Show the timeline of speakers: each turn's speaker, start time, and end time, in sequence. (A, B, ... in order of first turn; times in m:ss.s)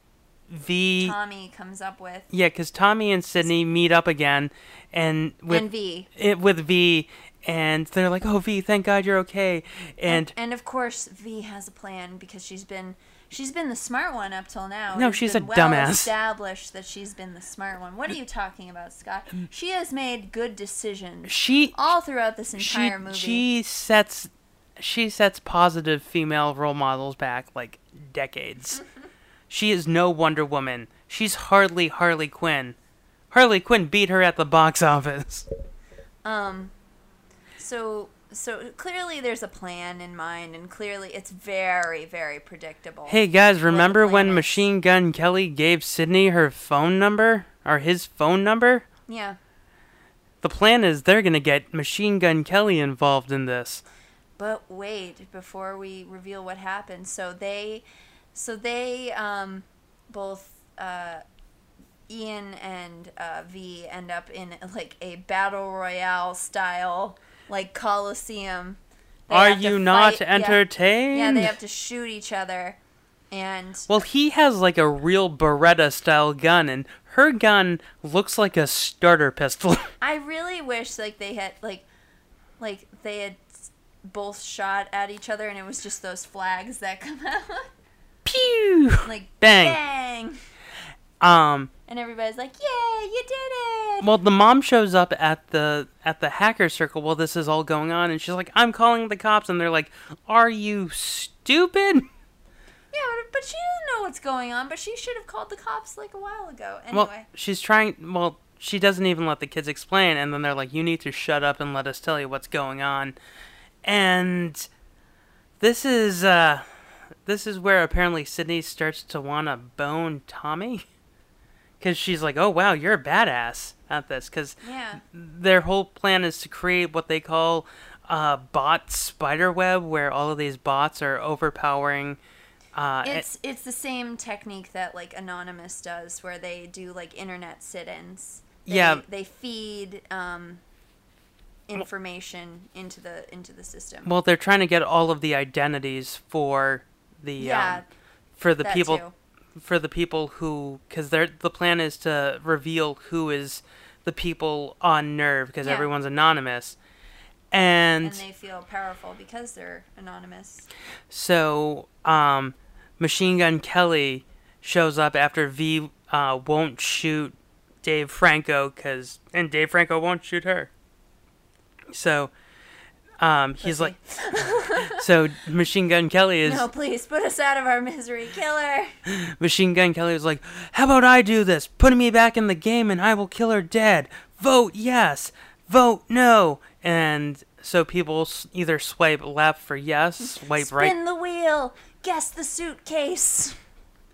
0:00.5-0:01.2 A
0:01.0-0:02.3 B
0:02.3-0:10.3 A
0:03.4-0:03.7 B
0:05.5-0:06.1 B
0:10.1-0:23.4 B
0:14.9-0:16.1 A
0:21.3-0:21.8 A
0:22.6-0:28.8 A
0:29.5-0:32.8 A
0:33.3-0:35.5 A
0:36.2-0:36.7 B
0:37.6-0:44.6 B
0:43.1-0:48.9 A
0:49.1-0:49.4 B
0:50.4-0:53.8 A
0:54.4-1:01.2 B
1:02.1-1:12.8 B
1:09.3-1:11.6 A
1:13.3-1:14.0 B
1:13.9-1:19.9 A
1:20.0-1:21.8 B
1:22.6-1:27.7 B
1:28.2-1:29.8 A
1:29.0-1:30.4 B
1:31.2-1:31.7 A
1:31.9-1:34.1 B
1:34.0-1:42.1 A
1:42.9-1:47.3 B
1:46.9-1:53.2 A
1:53.8-1:54.7 A
1:55.6-1:56.7 A
1:57.3-2:00.8 A
2:01.8-2:12.2 A
2:04.6-2:05.0 B
2:12.8-2:13.3 A
2:13.0-2:20.6 B
2:18.7-2:19.0 A
2:21.7-2:24.1 B
2:24.0-2:27.8 A
2:27.4-2:27.9 B
2:28.4-2:29.0 A
2:28.6-2:29.1 B
2:29.6-2:36.8 A
2:35.6-2:35.9 B
2:37.5-2:38.2 A
2:38.0-2:40.7 B
2:41.1-2:50.7 A
2:51.9-2:52.3 A
2:53.2-2:54.0 A
2:53.6-2:55.0 B
2:54.8-2:56.6 A
2:56.4-2:59.0 B
2:59.1-3:11.0 A
3:10.3-3:13.6 B